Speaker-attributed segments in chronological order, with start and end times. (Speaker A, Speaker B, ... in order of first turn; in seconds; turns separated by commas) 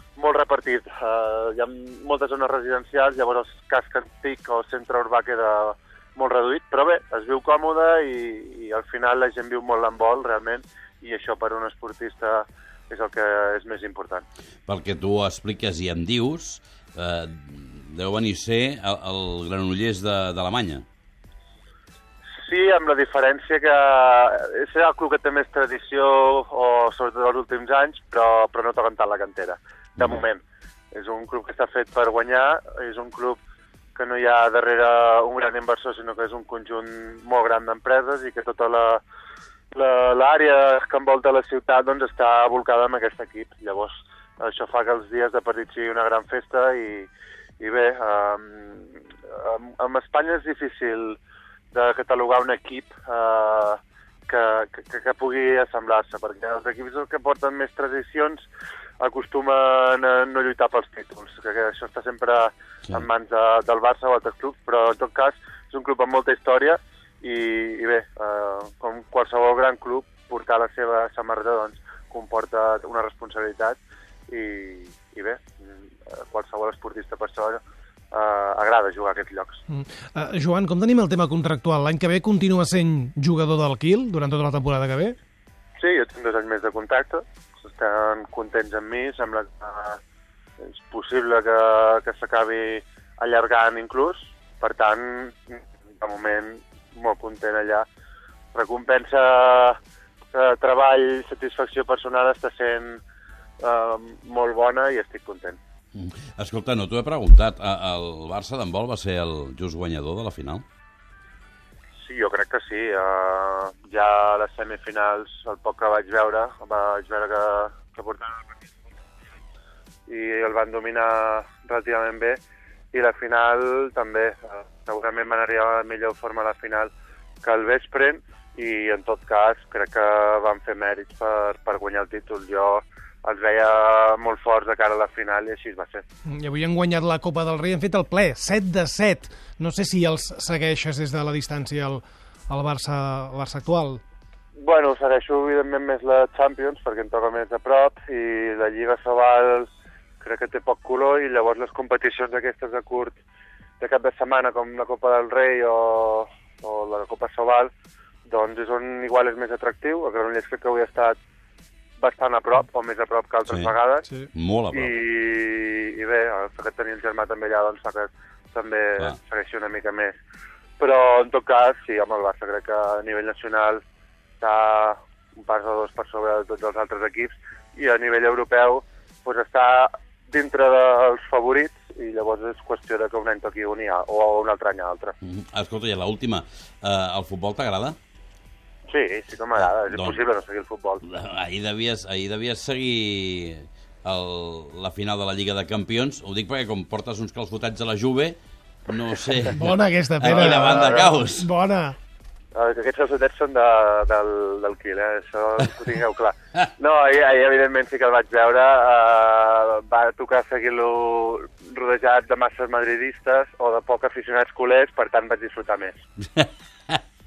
Speaker A: 0.2-14.2, Speaker B: 14.7-20.8, Speaker A: 22.4-30.4, Speaker B: 30.0-30.2, Speaker A: 30.9-33.4, Speaker A: 34.0-39.0, Speaker A: 39.7-47.1, Speaker A: 47.6-51.2, Speaker A: 51.7-58.4, Speaker A: 59.0-77.6, Speaker A: 78.1-79.6, Speaker C: 79.7-85.2, Speaker A: 85.8-90.0, Speaker A: 90.6-97.9, Speaker A: 98.5-99.8, Speaker A: 100.3-103.0, Speaker A: 103.6-105.6, Speaker B: 105.9-110.7, Speaker A: 112.0-118.4, Speaker A: 120.1-122.4, Speaker A: 122.9-126.9, Speaker A: 127.4-136.0, Speaker C: 136.3-144.0, Speaker A: 144.6-149.7, Speaker A: 150.2-153.2, Speaker A: 153.8-157.7, Speaker A: 158.3-161.2, Speaker A: 162.0-164.1, Speaker B: 163.5-163.7, Speaker B: 164.3-164.9, Speaker A: 164.7-170.1, Speaker A: 170.8-173.8, Speaker A: 174.4-185.1, Speaker B: 185.2-188.0, Speaker A: 188.9-191.0, Speaker B: 189.6-190.2, Speaker B: 191.0-198.4, Speaker B: 198.9-201.5, Speaker C: 199.5-202.0, Speaker A: 200.3-201.1, Speaker A: 202.5-216.0, Speaker B: 216.4-217.0